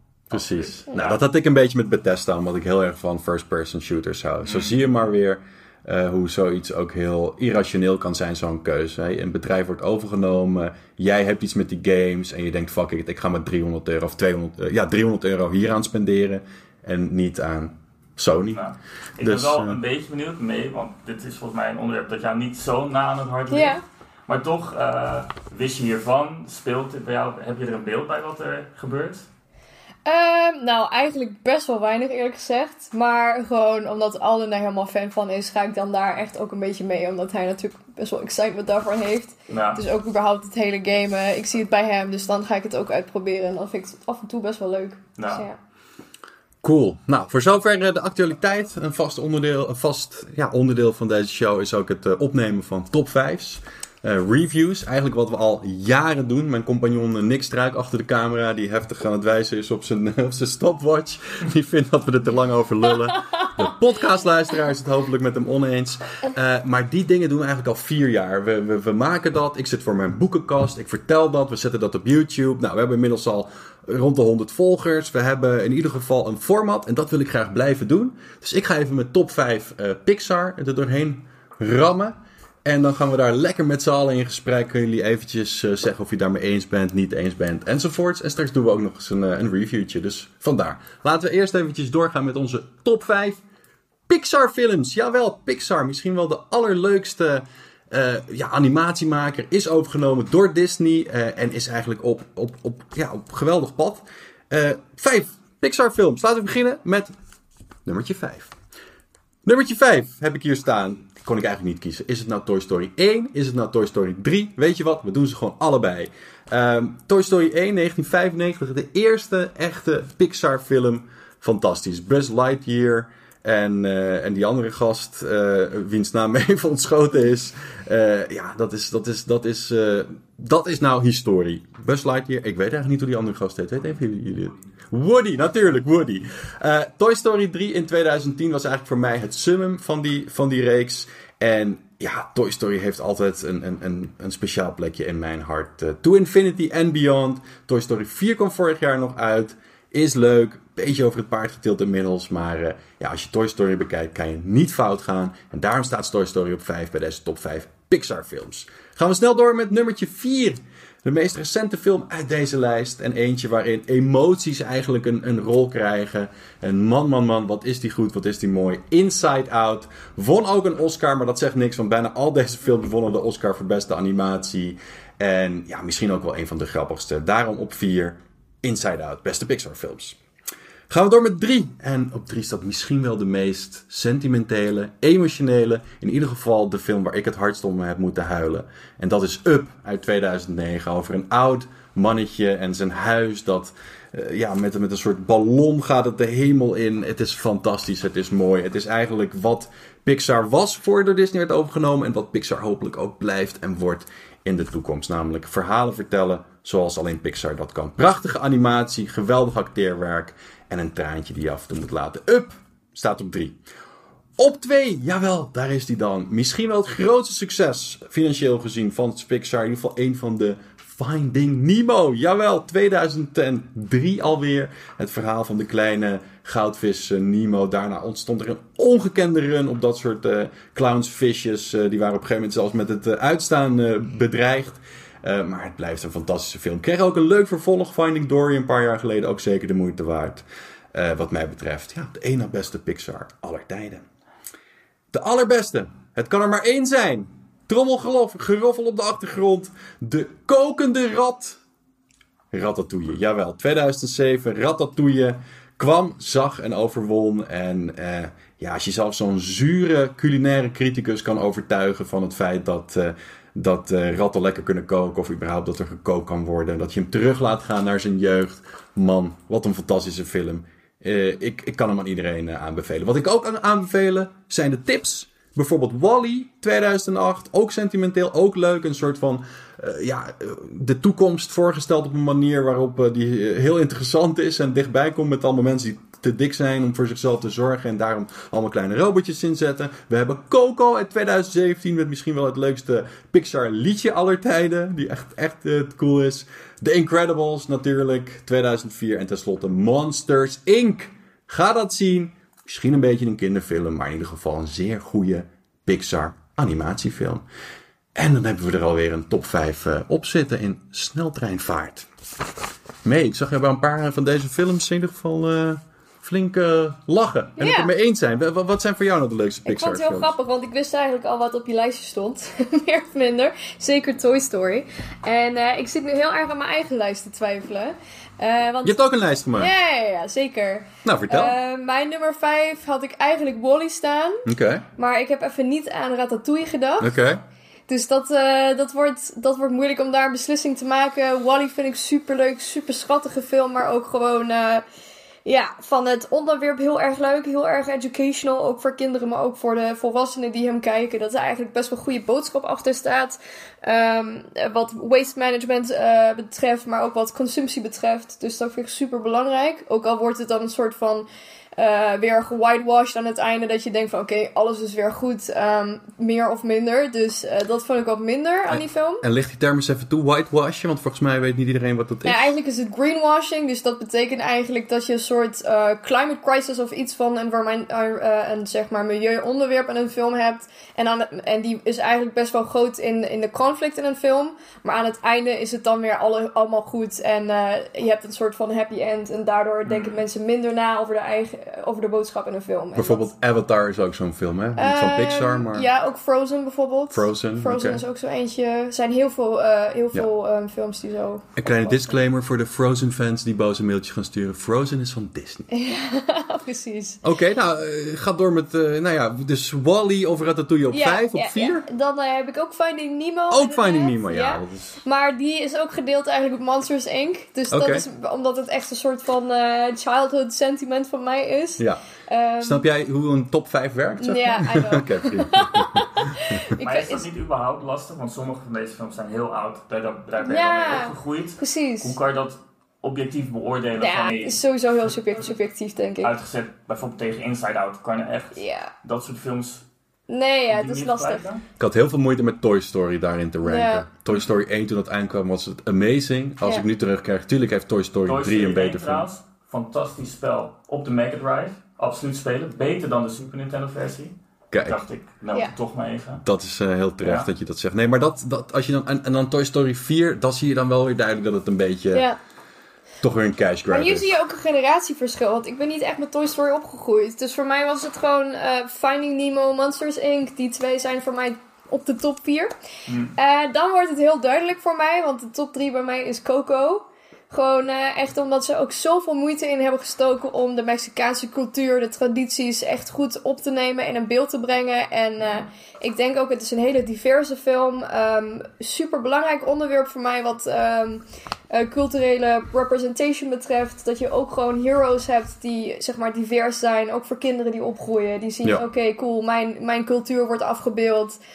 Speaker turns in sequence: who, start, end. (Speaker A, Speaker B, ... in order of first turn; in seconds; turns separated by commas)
Speaker A: 0.3-1.2, Speaker B: 0.3-18.6, Speaker A: 4.4-4.8, Speaker A: 18.5-29.3, Speaker B: 19.2-19.8, Speaker C: 23.5-23.8, Speaker C: 30.1-45.6, Speaker A: 39.5-39.8, Speaker A: 45.2-45.5, Speaker B: 46.6-93.4, Speaker C: 63.1-63.5, Speaker B: 94.1-107.1, Speaker B: 107.9-108.5, Speaker B: 109.5-180.2, Speaker B: 180.9-213.6, Speaker B: 214.4-244.1, Speaker B: 245.1-251.6, Speaker B: 252.5-307.4, Speaker B: 308.1-312.1, Speaker B: 313.0-320.3, Speaker C: 317.6-317.9, Speaker C: 319.7-329.0, Speaker B: 328.8-329.7, Speaker C: 329.6-334.5, Speaker B: 331.0-331.6, Speaker B: 334.5-334.8, Speaker C: 335.0-337.1, Speaker B: 337.0-337.4, Speaker C: 337.9-344.8, Speaker C: 345.4-369.2, Speaker B: 368.7-372.4, Speaker C: 372.2-393.3, Speaker A: 389.9-390.2, Speaker B: 392.9-395.9, Speaker C: 394.8-402.0, Speaker B: 397.1-398.0, Speaker B: 401.6-405.7, Speaker C: 405.7-407.2, Speaker B: 407.2-411.9, Speaker C: 410.9-422.8, Speaker B: 413.5-415.0, Speaker B: 417.7-418.1, Speaker B: 422.6-426.6, Speaker C: 424.2-427.3, Speaker A: 426.8-435.5, Speaker C: 430.4-432.2, Speaker C: 434.0-436.3, Speaker A: 436.2-439.9, Speaker C: 438.5-438.9, Speaker C: 440.3-441.4, Speaker A: 440.7-441.6, Speaker B: 441.8-449.3, Speaker C: 443.6-444.1, Speaker A: 448.3-456.4, Speaker B: 454.7-455.0, Speaker B: 456.4-462.3, Speaker A: 457.2-457.5, Speaker B: 463.2-464.3, Speaker C: 463.9-472.7, Speaker A: 473.1-473.3, Speaker C: 473.3-501.4